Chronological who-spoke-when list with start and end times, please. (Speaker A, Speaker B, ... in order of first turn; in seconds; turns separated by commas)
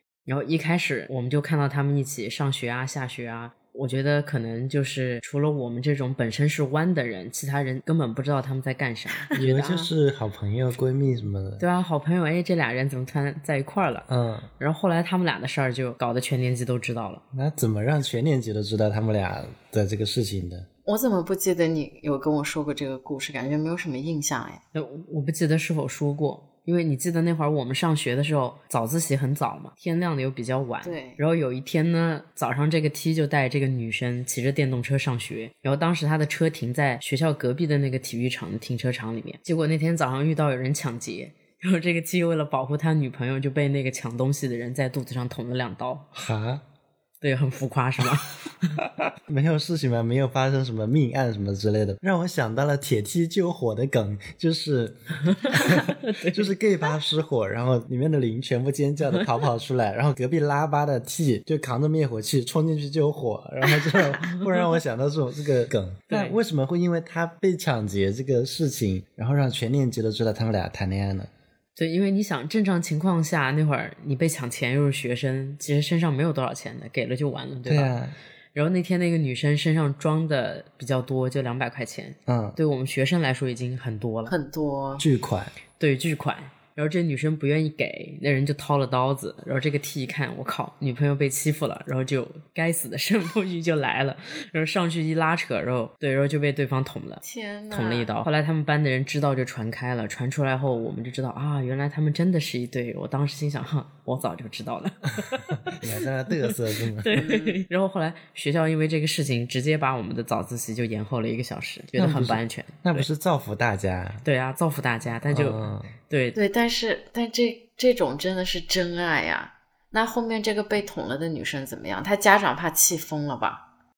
Speaker A: 0.2-9.9, Speaker B: 9.3-11.6, Speaker A: 11.6-14.1, Speaker B: 14.1-14.5, Speaker A: 14.6-17.2, Speaker B: 17.3-20.7, Speaker C: 20.9-24.6, Speaker A: 24.7-46.1, Speaker C: 30.8-31.2, Speaker B: 46.1-46.6, Speaker A: 47.2-48.8, Speaker B: 49.2-71.3, Speaker A: 55.3-56.5, Speaker A: 63.8-64.5, Speaker A: 66.1-66.3, Speaker A: 71.8-77.9, Speaker B: 77.7-78.1, Speaker A: 78.5-84.3, Speaker B: 82.3-82.6, Speaker C: 84.3-85.0, Speaker B: 85.0-85.5, Speaker A: 85.8-105.8, Speaker C: 97.2-98.1, Speaker B: 105.7-107.1, Speaker A: 106.3-113.1, Speaker C: 107.1-107.6, Speaker B: 112.0-114.2, Speaker A: 114.2-116.4, Speaker B: 115.3-115.9, Speaker C: 116.3-123.6